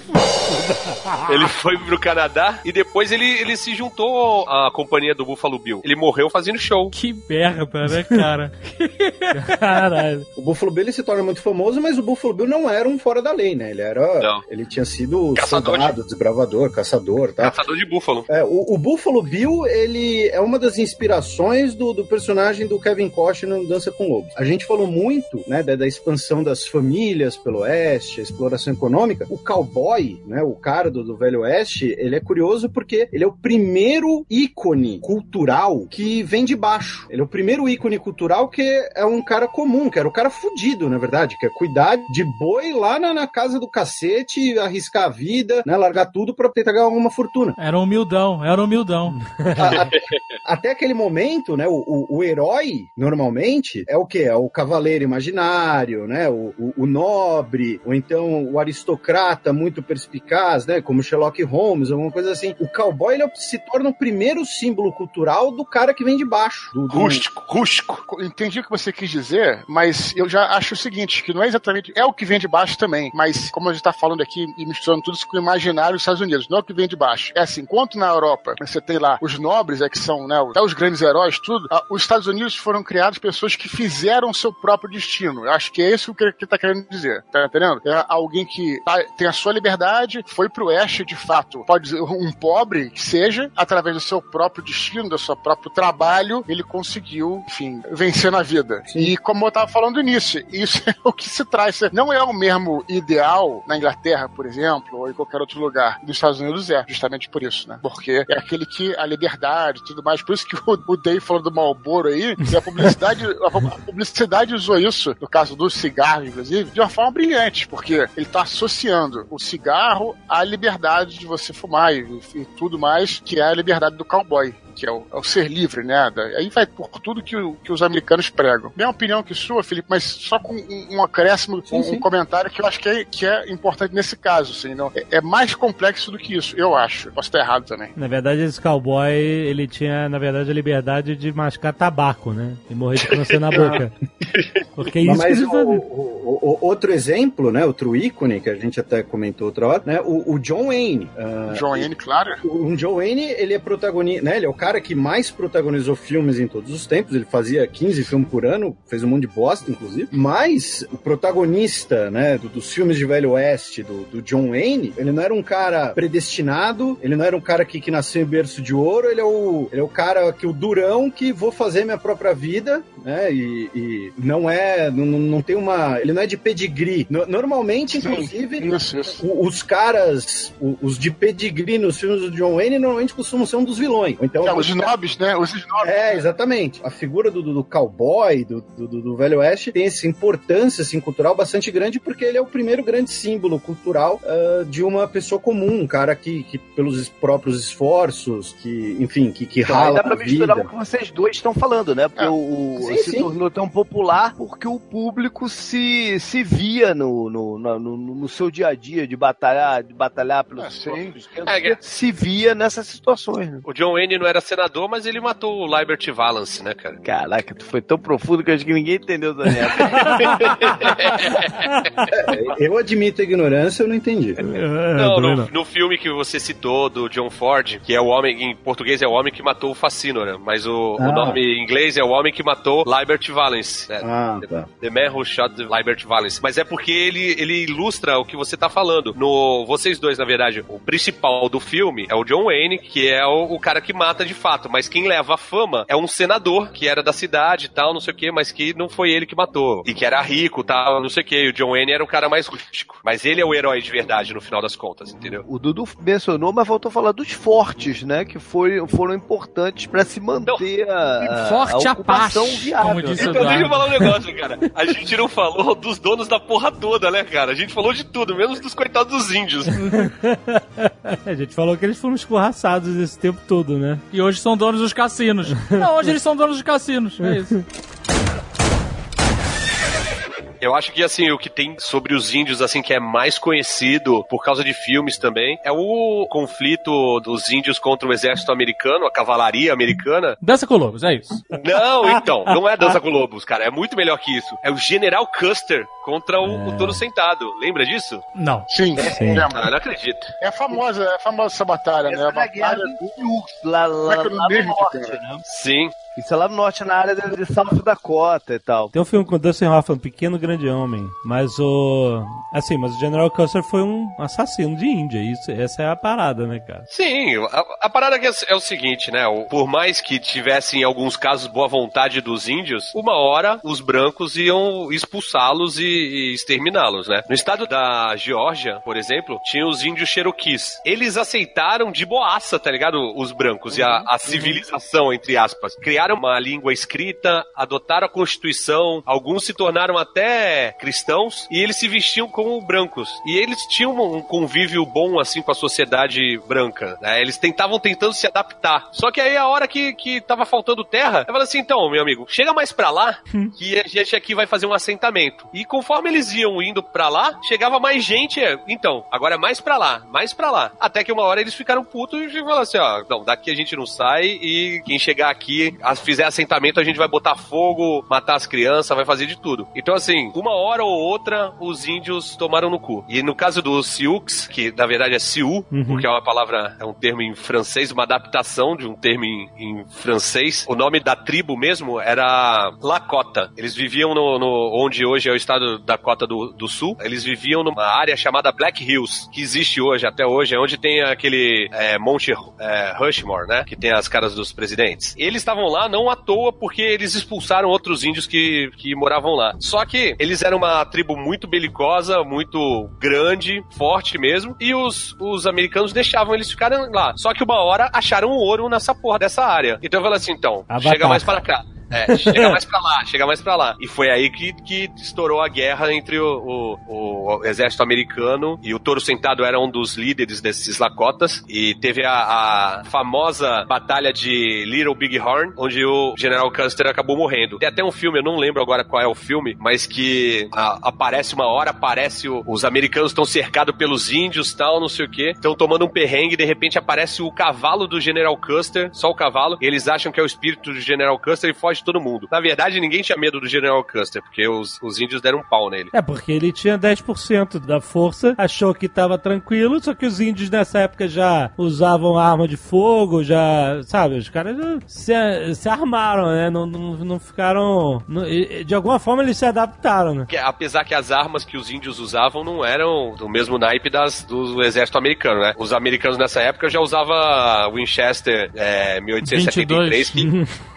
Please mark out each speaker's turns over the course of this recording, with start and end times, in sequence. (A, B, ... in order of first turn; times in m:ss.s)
0:00.5-0:01.2 A
0:01.2-0:06.9 B
0:06.9-0:09.8 C
0:07.9-0:08.2 A
0:09.2-0:10.3 A
0:10.4-0:17.6 D
0:15.3-0:16.0 B
0:17.4-0:18.3 B
0:18.3-0:47.6 D
0:47.6-0:49.2 C
0:49.1-0:49.8 A
0:49.6-1:07.2 D
0:49.7-0:50.0 B
1:06.9-1:08.0 B
1:08.0-2:17.9 E
2:11.7-2:12.0 D
2:18.0-2:23.9 A
2:24.8-2:25.8 A
2:25.0-2:31.9 D
2:31.5-2:32.4 E
2:32.4-3:04.9 D
2:57.9-2:59.2 E
3:04.4-3:06.2 E
3:05.8-3:20.7 D
3:19.6-3:33.6 F
3:22.8-3:23.3 D
3:30.6-3:31.2 E
3:31.4-3:31.8 B
3:33.6-3:37.0 B
3:37.0-3:40.4 F
3:39.9-3:40.5 A
3:40.3-3:41.5 B
3:41.7-3:42.0 A
3:42.1-3:44.4 D
3:44.4-3:45.5 A
3:44.9-4:15.4 B
3:51.0-3:51.4 D
3:54.0-3:54.6 D
4:15.4-4:23.7 F
4:21.2-4:23.8 C
4:23.1-4:29.8 B
4:23.9-4:24.1 A
4:29.8-4:34.0 A
4:34.1-4:37.6 C
4:40.6-4:50.4 B
4:50.4-4:51.4 C
4:51.5-4:58.2 B
4:56.4-4:57.0 A
4:58.4-4:58.7 C
4:58.7-4:59.7 E
4:59.1-4:59.4 A
4:59.5-5:00.3 B
5:00.4-5:03.0 E
5:02.1-5:05.4 F
5:04.0-5:05.2 E
5:05.4-5:06.0 B
5:06.1-5:08.9 F
5:08.9-5:16.8 A
5:16.9-7:25.9 B
6:15.7-6:16.0 A
6:50.7-6:51.3 A
6:52.1-6:52.6 A
7:25.9-7:40.3 A
7:40.3-7:50.3 B
7:49.2-7:50.3 C